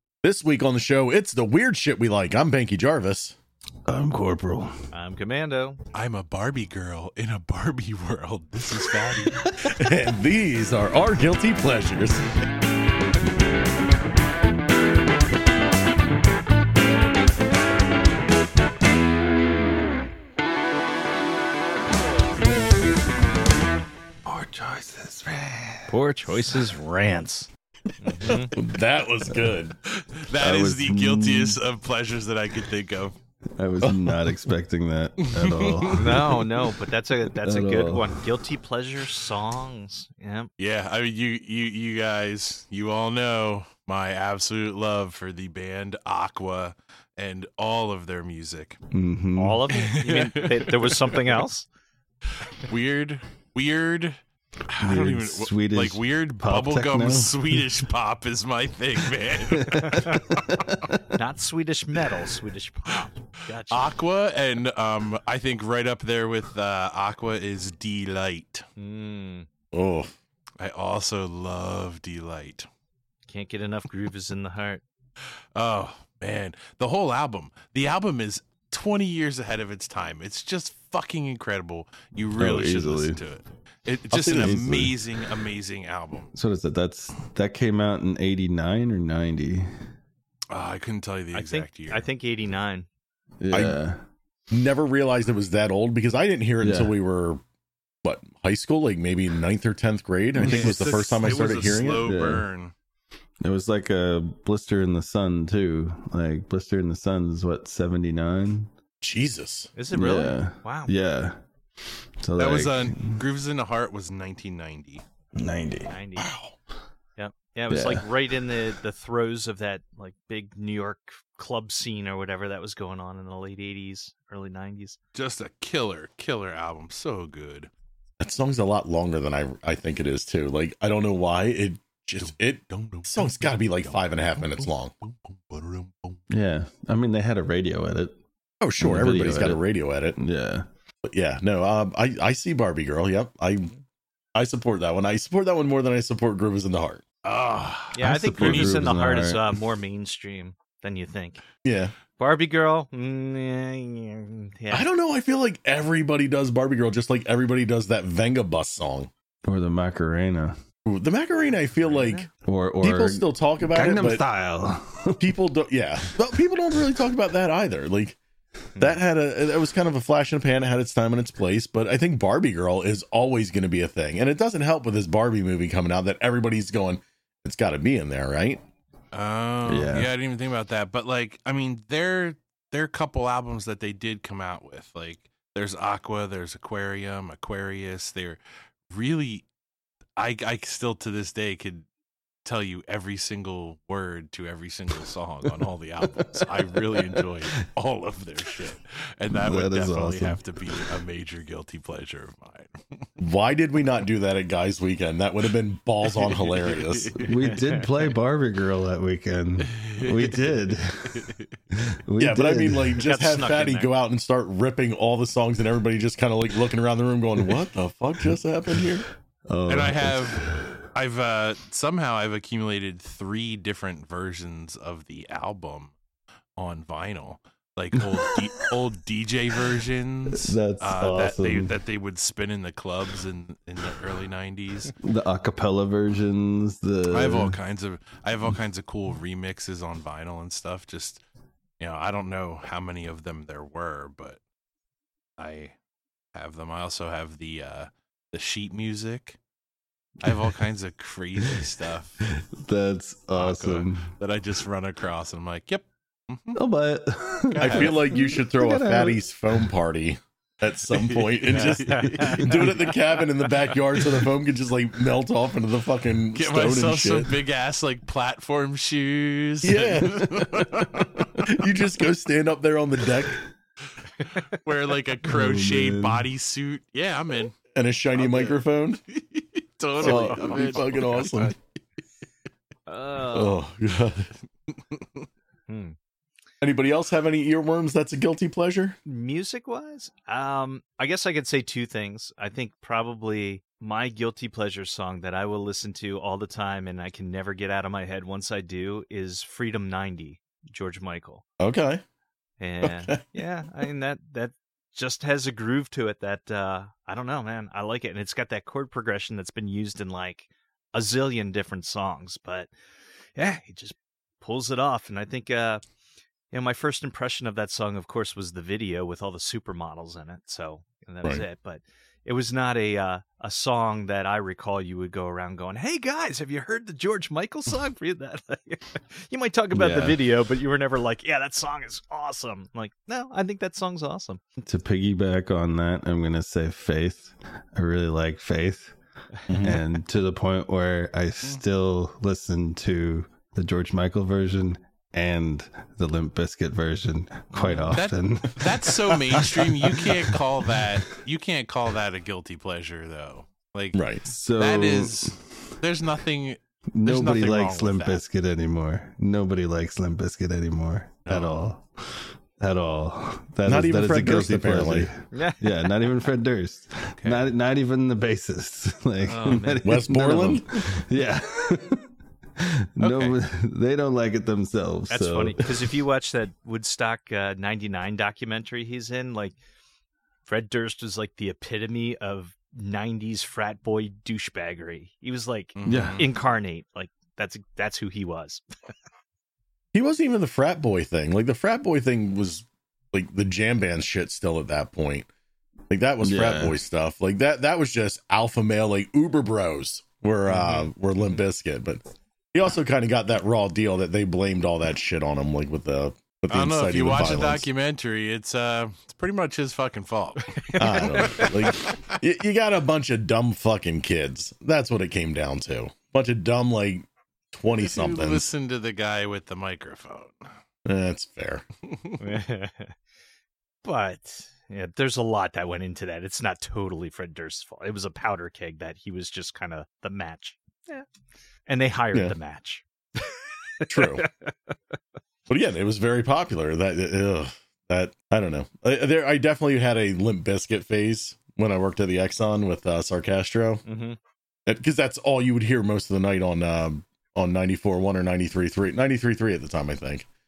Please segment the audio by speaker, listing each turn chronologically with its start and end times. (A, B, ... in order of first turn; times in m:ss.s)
0:00.2-0:03.4 A
0:03.8-0:04.7 B
0:04.9-0:05.8 C
0:05.9-0:09.5 D
0:09.1-0:09.8 B
0:09.6-0:12.2 A
0:24.2-0:26.7 B
0:25.9-0:27.5 C
0:28.0-0:28.5 C
0:28.2-0:29.8 A
0:29.2-0:29.6 B
0:29.9-0:33.1 D
0:30.3-0:31.6 B
0:33.5-0:36.4 B
0:33.8-0:34.1 A
0:35.2-0:36.3 D
0:35.9-0:40.5 C
0:37.4-0:38.2 B
0:40.6-0:48.8 D
0:48.9-0:49.6 B
0:49.4-0:51.7 C
0:49.7-0:51.2 D
0:52.5-1:00.3 D
0:54.8-0:57.7 B
0:59.2-1:01.2 B
0:59.8-1:00.3 C
1:01.1-1:03.9 C
1:03.7-1:08.6 D
1:08.8-1:09.5 C
1:09.7-1:10.1 A
1:10.6-1:12.7 D
1:13.3-1:14.8 C
1:15.5-1:26.3 D
1:22.4-1:23.2 B
1:24.1-1:24.6 A
1:24.3-1:25.0 B
1:26.3-1:29.7 B
1:30.5-1:32.0 D
1:31.3-1:32.9 C
1:33.4-1:34.0 B
1:33.5-1:33.8 A
1:34.5-1:37.4 A
1:36.6-1:36.9 B
1:38.0-1:42.1 A
1:40.4-1:42.7 D
1:40.5-1:40.8 C
1:42.0-1:42.5 B
1:43.4-1:48.7 B
1:49.0-1:49.7 A
1:49.7-1:50.9 C
1:49.9-1:51.4 B
1:52.2-1:53.2 B
1:52.4-1:55.0 D
1:55.3-1:55.9 B
1:55.9-1:56.3 C
1:56.2-1:56.5 A
1:57.2-2:05.0 C
1:57.7-1:58.1 B
2:05.1-2:07.7 D
2:08.2-2:14.9 A
2:12.2-2:16.2 D
2:16.3-2:18.2 B
2:18.6-2:20.2 A
2:18.8-2:19.6 B
2:20.2-2:20.6 B
2:21.0-2:23.7 A
2:24.3-2:27.0 A
2:27.2-2:28.8 D
2:27.9-2:31.4 C
2:28.0-2:29.6 B
2:31.6-2:31.9 A
2:32.2-2:34.8 C
2:34.7-2:39.1 A
2:39.4-2:40.6 B
2:40.8-2:42.3 A
2:41.8-2:42.3 C
2:42.4-2:45.4 B
2:42.8-2:44.2 A
2:45.2-2:48.2 A
2:48.8-2:58.6 A
2:59.1-3:09.4 D
2:59.6-3:00.1 B
3:10.2-3:11.8 D
3:12.4-3:23.1 D
3:16.0-3:17.6 B
3:19.3-3:20.9 B
3:23.2-3:27.3 A
3:26.0-3:27.4 D
3:27.2-3:33.0 B
3:27.4-3:27.8 C
3:29.6-3:31.5 D
3:32.2-3:39.0 A
3:33.0-3:33.9 C
3:39.5-3:40.8 B
3:39.7-3:45.9 D
3:46.6-3:54.9 D
3:48.0-3:48.8 B
3:50.3-3:51.7 B
3:55.0-3:57.6 B
3:57.1-4:01.2 D
4:01.8-4:04.4 D
4:05.4-4:05.7 D
4:06.3-4:09.4 D
4:10.2-4:12.2 D
4:11.4-4:11.7 B
4:12.2-4:14.1 B
4:13.3-4:16.6 D
4:16.5-4:19.2 B
4:17.6-4:18.0 D
4:17.6-4:27.3 A
4:20.9-4:22.8 D
4:21.8-4:22.6 C
4:26.3-4:31.5 D
4:29.6-4:33.4 A
4:34.2-4:37.6 D
4:35.3-4:36.3 B
4:37.7-4:39.0 A
4:38.2-4:38.6 C
4:39.1-4:41.5 D
4:40.0-4:41.5 A
4:40.0-4:40.3 B
4:40.0-4:40.8 C
4:42.9-4:43.6 C
4:43.3-4:44.3 A
4:44.7-4:45.2 D
4:45.7-4:46.0 C
4:46.6-4:49.0 A
4:49.0-5:01.4 C
5:01.6-5:02.0 A
5:02.6-5:12.7 C
5:02.8-5:03.4 A
5:13.3-5:15.8 C
5:16.5-5:34.4 C
5:29.7-5:30.2 B
5:34.6-5:38.9 B
5:39.5-5:39.8 A
5:39.6-5:51.0 B
5:47.5-5:47.9 C
5:47.9-5:54.0 D
5:53.9-5:54.2 A
5:54.3-5:55.7 B
5:54.6-5:58.2 D
5:56.9-6:15.7 B
6:01.3-6:01.5 D
6:03.6-6:05.1 A
6:05.3-6:06.1 C
6:07.1-6:07.4 D
6:09.2-6:10.0 C
6:09.8-6:10.9 A
6:13.0-6:13.4 D
6:15.1-6:19.6 C
6:20.4-6:28.6 C
6:25.8-6:26.3 D
6:25.8-6:26.3 B
6:29.9-6:35.3 A
6:35.9-6:42.0 A
6:36.2-6:36.8 B
6:40.6-6:41.4 C
6:42.5-6:47.7 A
6:46.5-6:52.2 D
6:50.4-6:51.6 C
6:50.8-6:58.5 A
6:57.8-7:00.5 D
7:00.8-7:01.6 A
7:01.9-7:02.2 D
7:02.2-7:03.0 C
7:03.8-7:11.0 C
7:11.7-7:14.7 C
7:13.9-7:14.3 A
7:15.5-7:23.8 A
7:23.8-7:24.2 C
7:24.6-7:30.3 A